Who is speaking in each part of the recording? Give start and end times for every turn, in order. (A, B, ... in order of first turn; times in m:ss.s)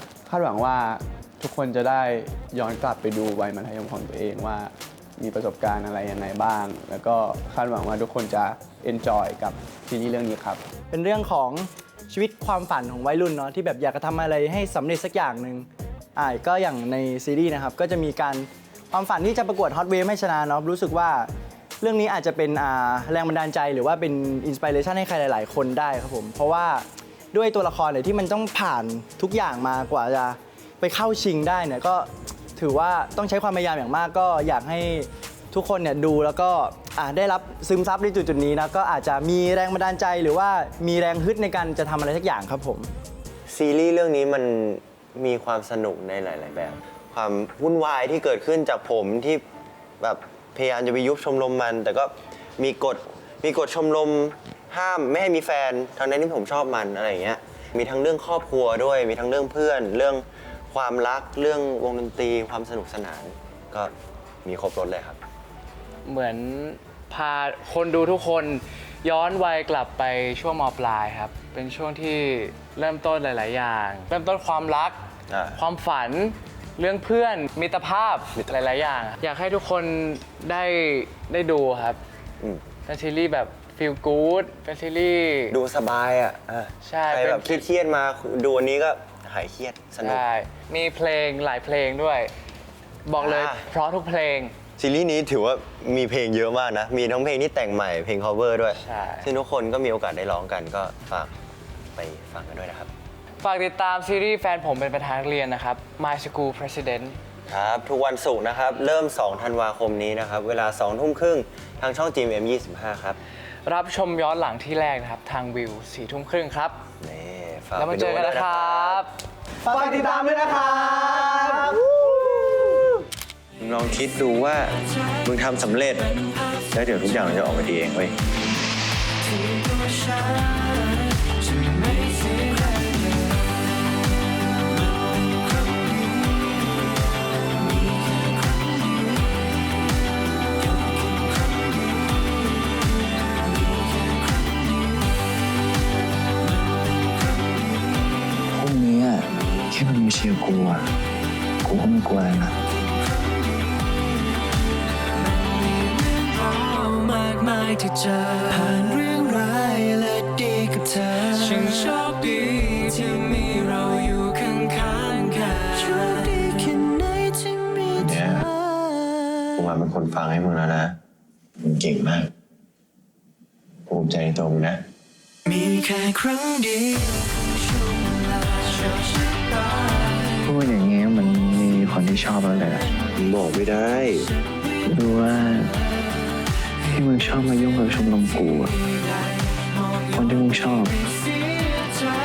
0:00.3-0:10.6 A
0:11.0-0:15.6 B
0:16.2-0:18.4 B
0:19.0-0:21.2 B
0:21.9-0:26.8 B
0:27.4-0:32.1 B
0:32.6-0:42.9 B
0:43.5-0:49.4 C
0:50.0-1:03.9 C
1:04.4-1:05.2 C
1:06.0-1:15.0 D
1:15.3-1:15.6 C
1:15.6-1:22.0 D
1:22.9-1:25.6 D
1:25.5-1:30.2 C
1:26.8-1:27.6 D
1:30.0-1:32.3 D
1:33.1-1:34.5 D
1:33.2-1:33.6 C
1:34.8-1:41.4 C
1:38.8-1:39.3 D
1:42.0-1:42.9 C
1:43.4-1:47.2 D
1:47.5-1:53.2 C
1:53.6-1:56.8 D
1:57.0-1:59.0 C
1:57.8-1:59.1 D
1:59.7-2:01.7 E
1:59.8-2:01.7 B
2:02.3-2:02.6 E
2:03.6-2:06.1 C
2:06.7-2:08.2 C
2:28.5-2:30.8 F
2:31.6-2:32.5 F
2:38.0-2:39.7 G
2:41.4-2:41.8 G
2:45.7-2:48.1 G
2:48.0-2:48.4 C
2:49.6-2:51.0 C
2:51.6-2:52.3 C
2:53.9-2:54.8 C
3:00.4-3:02.8 F
3:03.2-3:04.3 C
3:04.8-3:05.7 F
3:06.9-3:08.7 F
3:10.1-3:11.0 F